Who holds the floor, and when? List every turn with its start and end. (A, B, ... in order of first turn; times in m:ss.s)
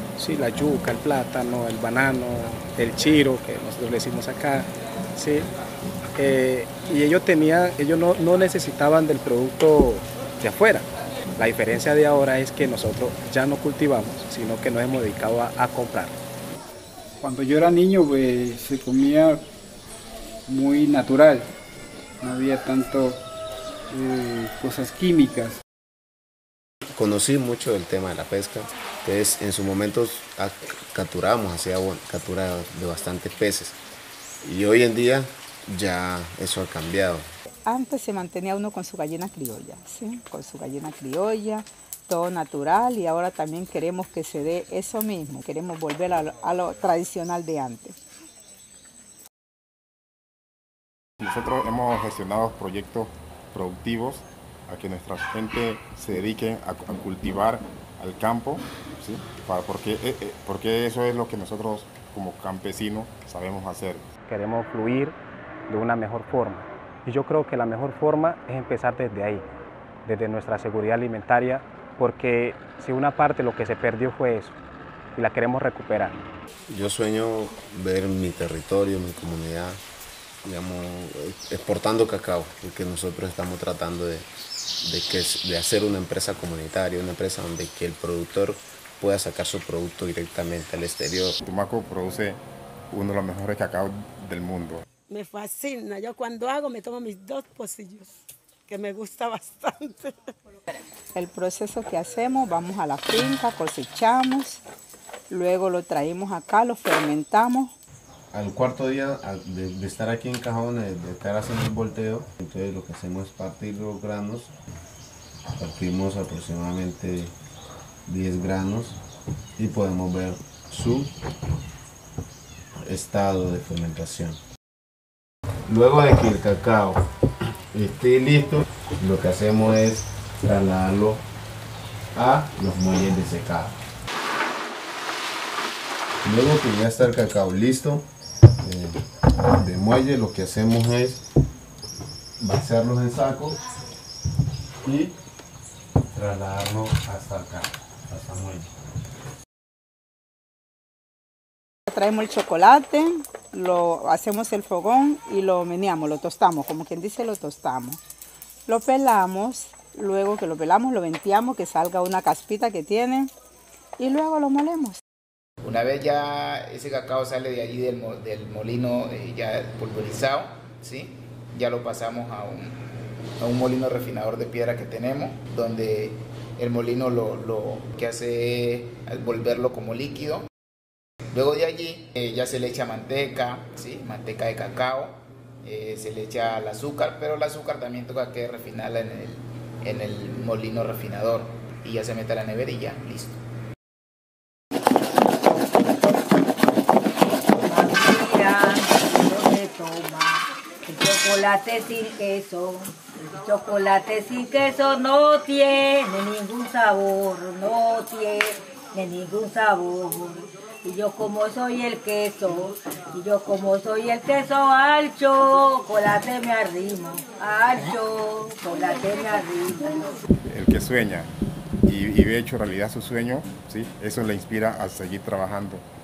0:00.2-0:05.5 A
0:06.2-0:10.8 A
0:11.4-0:16.1 A
0:17.2-0:19.4 B
0:20.5-0:21.5 B
0:22.2-0:23.2 B
0:23.9-0:25.6 B
0:26.9-0:33.8 C
0:34.4-0:37.3 C
0:37.6-0:48.0 D
0:51.2-1:04.0 E
1:04.3-1:05.1 A
1:05.7-1:09.4 A
1:10.0-1:14.6 A
1:15.2-1:16.2 A
1:16.7-1:19.8 C
1:20.4-1:24.3 C
1:24.8-1:31.4 C
1:31.4-1:34.8 E
1:35.1-1:38.1 F
1:38.7-1:40.3 F
1:41.1-1:44.6 D
1:45.3-1:47.7 D
1:48.3-1:54.5 C
1:55.6-1:57.3 C
1:58.1-1:59.0 C
1:59.6-2:01.1 C
2:02.8-2:04.4 C
2:05.7-2:07.0 C
2:07.7-2:11.2 C
2:12.1-2:13.8 C
2:16.2-2:18.1 C
2:18.6-2:21.2 C
2:22.4-2:23.6 C
2:24.8-2:25.1 C
2:26.1-2:28.7 C
2:31.9-2:38.0 D
2:38.7-2:43.3 D
2:44.0-2:45.0 D
2:45.6-2:52.8 G
2:53.4-3:00.4 G
3:01.3-3:13.4 G
3:17.5-3:40.2 H
3:40.5-3:41.3 E
3:41.8-3:45.8 E